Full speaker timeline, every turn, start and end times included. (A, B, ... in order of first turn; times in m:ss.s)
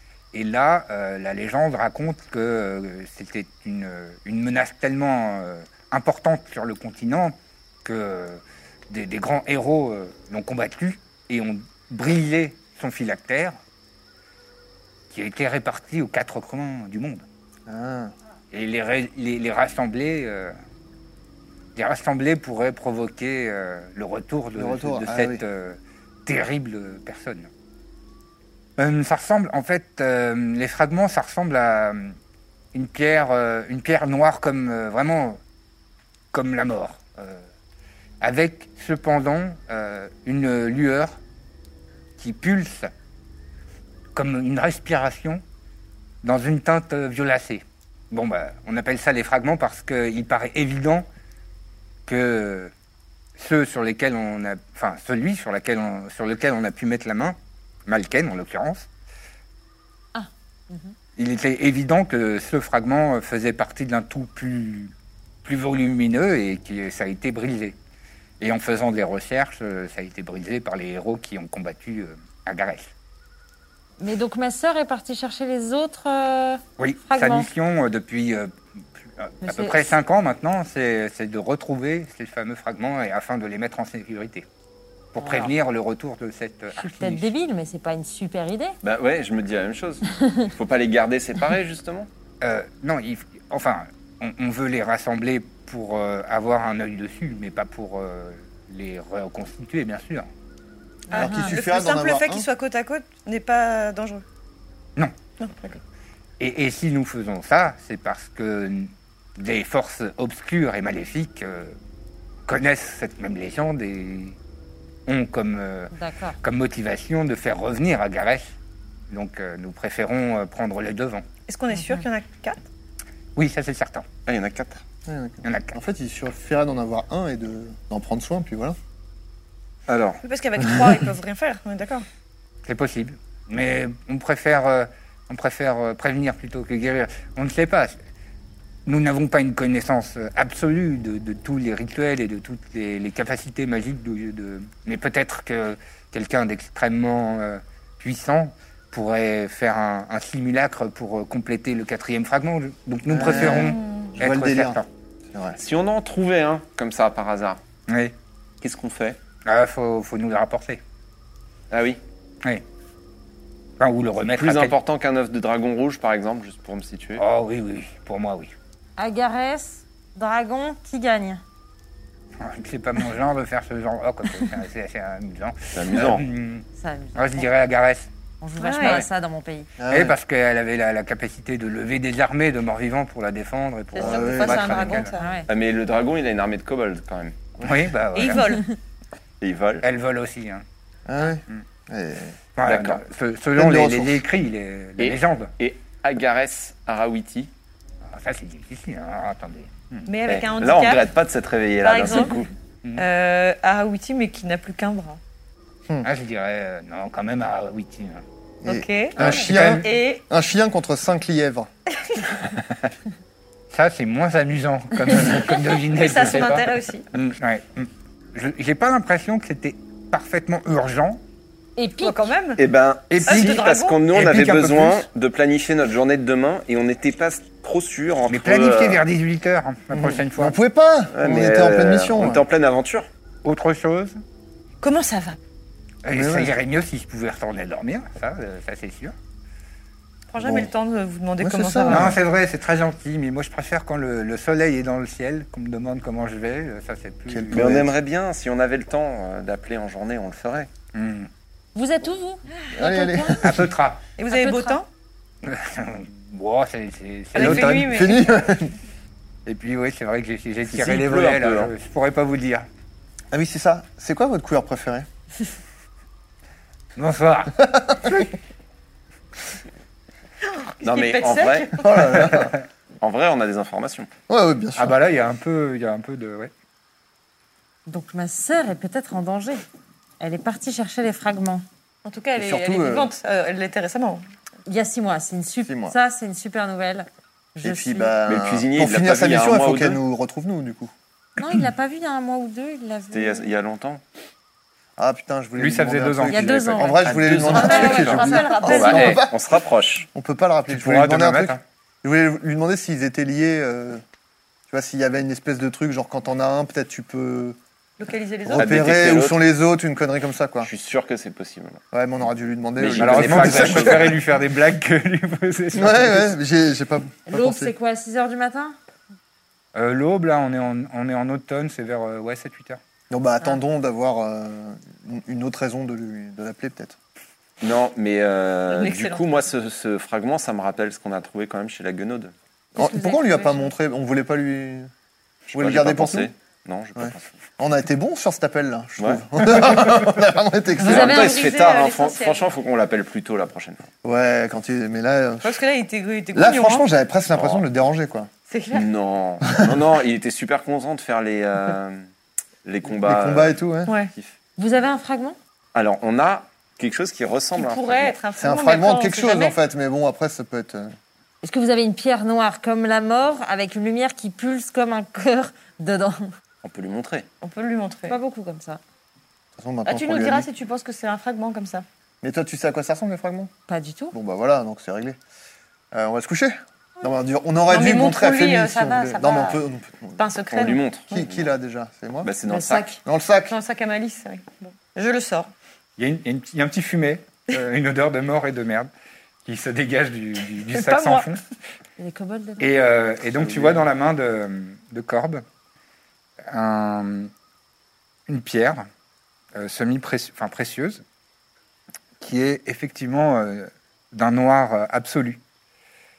0:00.3-0:13.6 A
0:15.1-0:17.3 A
0:17.7-0:18.1 B
0:18.5-0:20.5 A
0:21.8-0:27.5 A
0:24.6-0:25.4 B
0:28.8-0:32.2 A
0:32.7-0:35.4 A
0:36.3-0:37.5 A
0:38.2-0:41.2 A
0:42.2-0:42.9 A
0:44.2-0:45.4 A
0:46.2-0:51.1 A
0:52.1-0:52.7 A
0:53.4-0:58.9 A
1:00.2-1:00.9 C
1:01.2-1:04.9 A
1:05.4-1:07.8 A
1:08.4-1:12.9 A
1:14.0-1:17.5 C
1:16.8-1:24.5 A
1:19.4-1:19.9 C
1:25.1-1:27.3 A
1:25.2-1:25.5 C
1:26.8-1:28.8 C
1:28.8-1:32.1 D
1:30.2-1:30.5 C
1:32.4-1:40.3 A
1:41.1-1:41.6 C
1:41.1-1:44.2 E
1:41.1-1:42.5 B
1:45.4-1:45.8 E
1:46.4-1:51.8 A
1:52.5-1:54.4 A
1:55.1-1:58.6 A
1:55.9-1:56.4 C
1:59.1-2:01.2 A
2:01.5-2:02.6 E
2:01.7-2:02.0 C
2:03.4-2:04.1 A
2:04.3-2:04.8 D
2:05.1-2:08.8 B
2:05.4-2:05.8 A
2:09.9-2:10.2 D
2:10.2-2:12.1 E
2:12.7-2:18.0 A
2:18.9-2:34.9 A
2:33.1-2:34.8 B
2:33.3-2:34.1 E
2:35.3-2:35.6 B
2:35.6-2:37.6 D
2:37.9-2:38.2 A
2:38.6-2:39.2 D
2:39.4-2:40.8 A
2:41.7-2:42.0 D
2:43.8-2:44.7 A
2:44.4-2:47.2 D
2:47.2-2:48.5 A
2:49.0-2:51.4 C
2:52.4-2:58.1 A
2:55.7-2:56.3 D
2:56.8-2:57.5 C
2:58.4-2:59.7 C
2:58.6-2:59.0 E
2:59.8-3:00.2 B
2:59.9-3:05.1 A
3:03.9-3:05.4 E
3:04.0-3:05.0 B
3:05.2-3:05.5 C
3:05.5-3:07.4 D
3:07.6-3:07.8 B
3:07.6-3:08.6 A
3:08.1-3:08.6 E
3:09.4-3:09.9 D
3:09.8-3:10.6 A
3:11.1-3:12.4 B
3:12.6-3:15.5 A
3:12.6-3:13.0 D
3:13.6-3:14.2 B
3:15.0-3:17.5 D
3:18.1-3:20.1 A
3:20.1-3:21.1 E
3:20.3-3:22.5 D
3:21.8-3:22.4 E
3:23.0-3:25.2 E
3:26.0-3:28.2 A
3:28.6-3:31.7 B
3:28.6-3:30.2 E
3:29.2-3:29.9 A
3:33.7-3:41.2 A
3:35.9-3:37.1 E
3:41.8-3:42.3 C
3:42.0-3:42.6 E
3:42.6-3:49.0 D
3:43.1-3:45.1 A
3:43.2-3:44.0 E
3:48.3-3:50.6 A
3:49.9-3:52.4 B
3:51.1-3:53.1 D
3:53.4-3:54.2 A
3:54.8-3:55.4 E
3:56.0-3:59.2 A
3:56.1-3:56.6 B
4:00.3-4:02.2 E
4:00.4-4:00.7 B
4:01.4-4:02.2 B
4:01.9-4:07.8 A
4:07.3-4:07.9 B
4:07.5-4:10.7 D
4:10.9-4:11.3 A
4:11.8-4:13.4 C
4:12.7-4:13.7 B
4:13.4-4:14.0 A
4:14.2-4:14.9 E
4:14.3-4:14.8 C
4:15.4-4:18.0 A
4:17.3-4:18.3 E
4:17.4-4:18.8 B
4:19.5-4:22.7 A
4:20.7-4:21.7 D
4:23.3-4:25.1 B
4:27.0-4:28.0 A
4:27.8-4:28.2 B
4:30.4-4:31.9 E
4:30.8-4:31.8 D
4:31.8-4:32.6 B
4:33.0-4:34.1 D
4:34.3-4:35.0 B
4:34.8-4:36.5 A
4:37.9-4:39.6 C
4:40.2-4:41.6 C
4:42.0-4:44.2 E
4:42.4-4:43.1 B
4:44.7-4:48.2 C
4:45.6-4:46.0 B
4:47.6-4:50.9 B
4:48.3-4:50.0 D
4:51.4-4:53.5 C
4:53.1-4:54.0 D
4:55.0-4:59.6 B
4:55.6-4:58.1 A
4:56.3-4:58.8 C
4:57.2-5:00.1 D
4:57.6-4:59.2 E
5:00.1-5:04.0 B
5:00.7-5:01.6 A
5:04.7-5:07.6 B
5:08.0-5:08.8 E
5:08.5-5:10.7 B
5:08.5-5:09.4 D
5:10.6-5:11.8 D
5:11.9-5:14.2 B
5:12.8-5:14.2 D
5:13.0-5:16.3 A
5:15.7-5:17.7 B
5:17.3-5:18.8 C
5:19.8-5:22.8 A
5:23.1-5:27.0 B
5:27.6-5:32.3 D
5:28.7-5:29.3 E
5:32.8-5:34.9 B
5:33.0-5:33.4 E
5:35.5-5:37.4 D
5:35.5-5:36.3 B
5:37.0-5:41.3 B
5:39.0-5:39.8 D
5:40.8-5:43.9 D
5:40.8-5:41.4 C
5:40.9-5:42.5 E
5:44.0-5:45.6 B
5:45.4-5:46.9 E
5:46.3-5:48.3 B
5:47.3-5:47.6 D
5:48.5-5:48.9 E
5:48.7-5:52.1 D
5:52.6-5:53.6 D
5:52.9-5:54.0 B
5:53.9-5:54.1 E
5:54.6-5:55.4 C
5:55.7-5:58.2 D
5:57.6-5:59.6 E
5:58.4-6:01.0 B
6:01.4-6:06.3 C
6:06.6-6:07.3 D
6:07.4-6:08.2 E
6:08.1-6:08.8 C
6:09.6-6:10.5 B
6:09.9-6:11.8 E
6:12.2-6:13.5 B
6:13.7-6:14.2 C
6:14.1-6:15.2 B
6:15.9-6:20.3 B
6:17.7-6:19.6 E
6:20.2-6:21.3 E
6:20.5-6:21.5 D
6:21.1-6:22.3 B
6:22.2-6:22.9 D
6:22.5-6:23.0 C
6:23.0-6:23.6 B
6:23.5-6:25.5 E
6:26.0-6:28.9 A
6:29.4-6:31.4 A
6:30.7-6:31.3 E
6:32.0-6:32.7 C
6:32.6-6:35.4 A
6:33.4-6:33.9 D
6:36.5-6:37.3 A
6:38.3-6:38.9 A
6:39.6-6:41.0 A
6:42.2-6:45.4 A